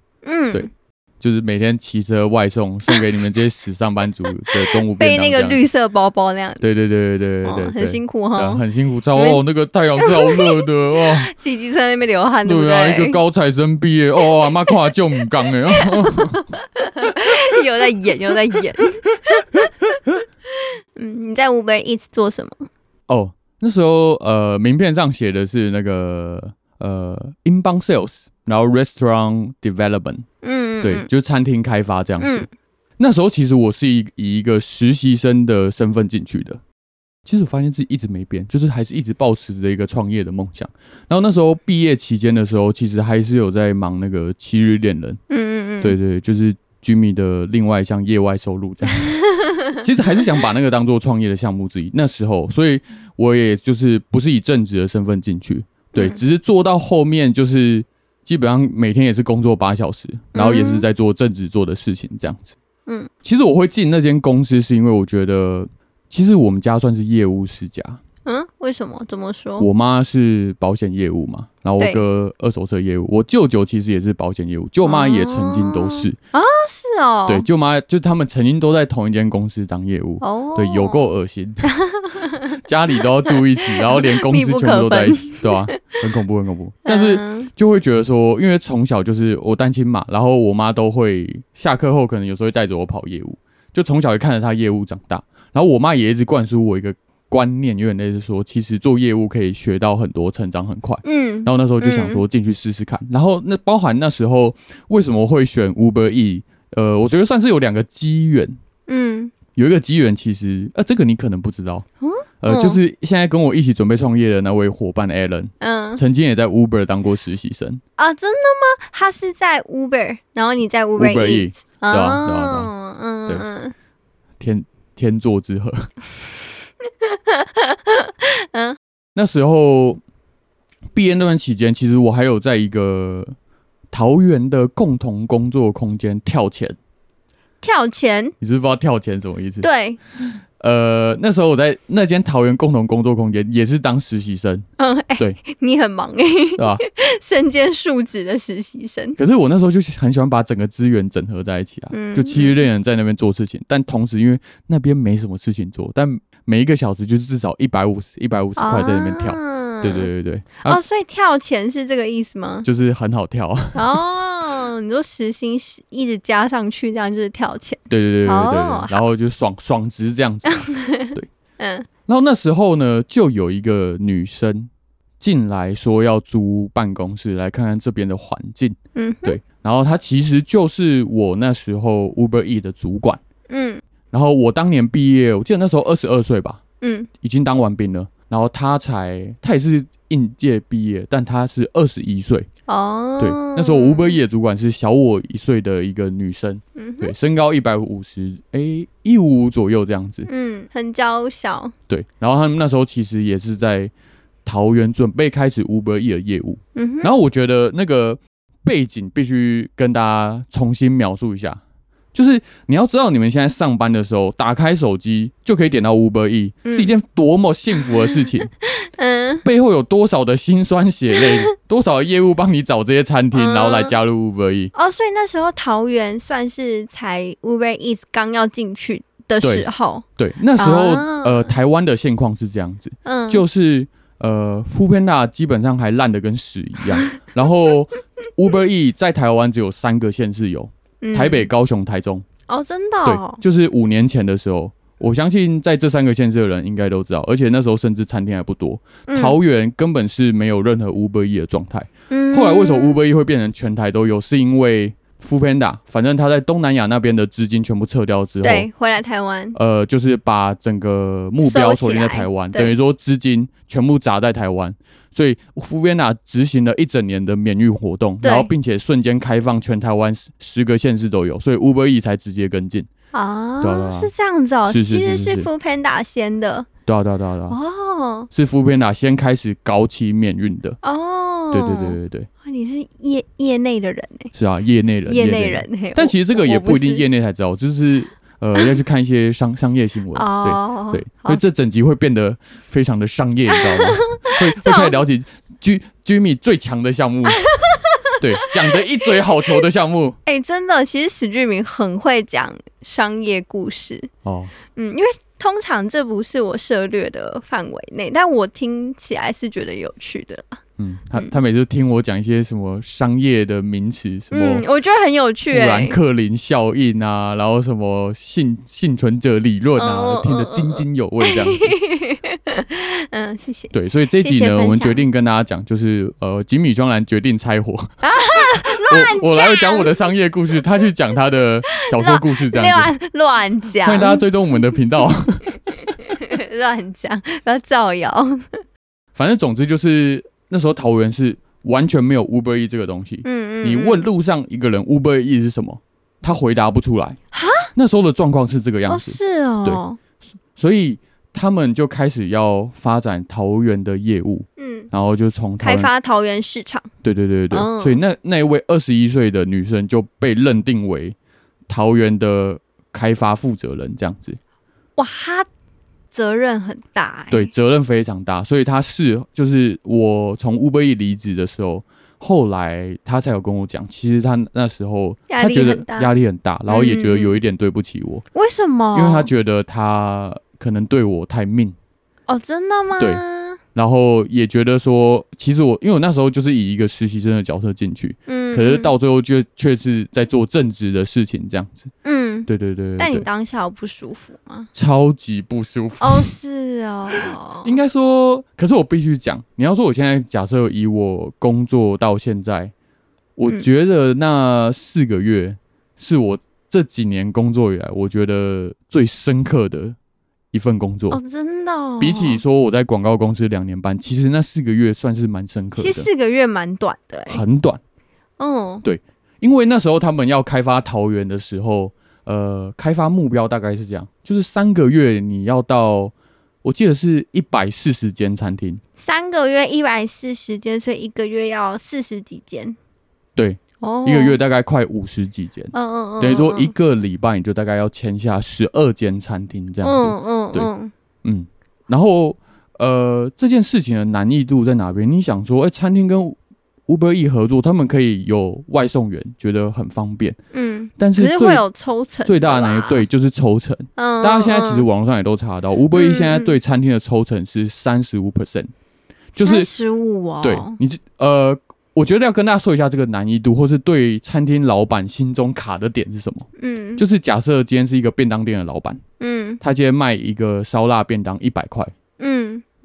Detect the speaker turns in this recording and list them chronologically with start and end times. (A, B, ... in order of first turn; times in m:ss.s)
0:00.2-0:00.7 A
0:00.5-0:05.6 B
0:04.5-0:06.6 A
0:06.6-0:11.3 B
0:07.4-0:08.6 A
0:09.2-0:09.4 A
0:10.0-0:13.2 A
0:12.4-0:16.5 B
0:15.8-0:19.7 A
0:20.6-0:22.7 A
0:23.1-0:30.2 B
0:30.4-0:31.1 A
0:30.8-0:32.5 B
0:32.2-0:32.5 A
0:33.0-0:36.6 B
0:37.2-0:45.2 B
0:45.3-0:46.0 A
0:45.8-1:02.6 B
0:48.8-0:49.8 A
0:55.9-0:56.2 A
1:00.3-1:00.9 A
1:03.2-1:08.0 B
1:08.2-1:09.7 A
1:09.6-1:16.2 B
1:14.8-1:17.5 A
1:17.3-1:21.7 B
1:20.2-1:21.1 A
1:21.7-1:22.6 A
1:22.5-1:48.6 B
1:23.3-1:25.8 A
1:26.8-1:27.5 A
1:41.0-1:42.2 A
1:48.9-1:49.3 A
1:49.5-1:51.8 B
1:52.0-1:52.8 A
1:52.4-1:57.8 B
1:55.6-1:56.0 A
1:58.0-2:03.7 A
2:01.0-2:02.7 B
2:04.4-2:05.9 B
2:06.9-2:08.8 A
2:09.1-2:10.0 B
2:11.0-2:13.4 B
2:13.9-2:16.8 B
2:17.6-2:18.4 A
2:18.4-2:19.7 B
2:19.6-2:20.0 A
2:20.6-2:24.6 B
2:24.8-2:29.2 A
2:26.6-2:26.8 B
2:29.2-2:40.8 B
2:31.9-2:32.6 A
2:38.6-2:40.1 A
2:40.6-2:42.7 A
2:42.6-2:44.0 B
2:43.8-2:49.0 A
2:47.9-2:51.3 B
2:50.6-2:51.9 A
2:52.1-3:03.2 B
2:59.0-2:59.4 A
3:03.5-3:03.8 A
3:04.1-3:06.6 B
3:06.8-3:07.1 A
3:07.2-3:12.5 B
3:12.7-3:14.2 A
3:13.2-3:20.3 B
3:16.8-3:17.1 A
3:20.2-3:21.7 A
3:21.9-3:23.9 B
3:24.4-3:31.6 B
3:26.8-3:27.1 A
3:32.1-3:38.5 B
3:36.6-3:36.9 A
3:37.8-3:38.1 A
3:38.6-3:39.5 A
3:39.4-3:44.7 B
3:43.3-3:43.9 A
3:44.7-3:50.0 A
3:49.4-4:02.2 B
3:50.6-3:51.5 A
3:53.0-3:53.4 A
4:01.0-4:01.5 A
4:02.5-4:03.4 A
4:03.0-4:18.7 B
4:09.1-4:09.4 A
4:12.1-4:13.0 A
4:18.4-4:19.6 A
4:19.5-4:32.9 B
4:21.4-4:22.8 A
4:28.2-4:28.5 A
4:33.1-4:36.7 A
4:33.6-4:34.1 B
4:34.6-4:35.5 B
4:36.9-4:37.6 B
4:37.5-4:38.3 A
4:38.3-4:40.8 B
4:40.8-4:44.3 A
4:41.5-4:42.3 B
4:44.3-4:57.4 B
4:45.1-4:47.0 A
4:50.1-4:51.4 A
4:53.6-4:55.0 A
4:57.4-4:58.2 A
4:58.2-5:00.2 B
5:00.2-5:04.1 A
5:04.2-5:04.5 B
5:04.7-5:10.6 A
5:10.8-5:14.6 B
5:14.3-5:16.0 A
5:15.5-5:21.8 B
5:19.8-5:25.0 A
5:23.7-5:32.9 B
5:28.0-5:30.0 A
5:31.9-5:34.2 A
5:33.8-5:36.0 B
5:36.1-5:38.6 A
5:39.1-5:47.2 B
5:43.2-5:44.0 A
5:47.3-5:47.7 A
5:47.8-5:49.8 B
5:48.9-5:50.0 A
5:50.5-5:55.9 B
5:54.6-5:54.9 A
5:55.6-5:56.9 A
5:57.0-6:01.2 B
5:57.5-5:58.0 A
6:01.7-6:04.4 B
6:05.0-6:05.5 A
6:06.1-6:07.5 A
6:07.3-6:18.2 B
6:15.3-6:16.1 A
6:16.7-6:17.4 A
6:18.3-6:19.3 A
6:18.9-6:21.8 B
6:22.3-6:23.6 A
6:23.8-6:31.9 B
6:28.3-6:28.9 A
6:32.0-6:34.7 A
6:32.5-6:33.3 B
6:34.7-6:36.3 B
6:36.0-6:37.8 A
6:37.1-6:42.7 B
6:43.4-6:50.0 B
6:50.5-6:51.2 B
6:51.1-6:52.4 A
6:52.0-6:56.1 B
6:55.8-6:57.4 A
6:57.3-6:57.8 B
6:58.4-6:58.8 A
6:58.8-7:06.1 B
7:06.6-7:08.8 B
7:09.0-7:12.8 A
7:13.4-7:20.7 B
7:13.8-7:14.4 A
7:15.7-7:16.7 A
7:19.8-7:20.9 A
7:21.2-7:30.4 B
7:30.5-7:33.0 A
7:31.0-7:31.6 B
7:32.2-7:38.7 B
7:34.0-7:34.9 A
7:35.9-7:36.6 A
7:39.4-7:39.7 B
7:39.4-7:40.8 A
7:40.4-7:49.0 B
7:46.6-7:47.0 A
7:49.2-7:49.6 A
7:49.6-7:51.9 B
7:52.2-7:52.6 A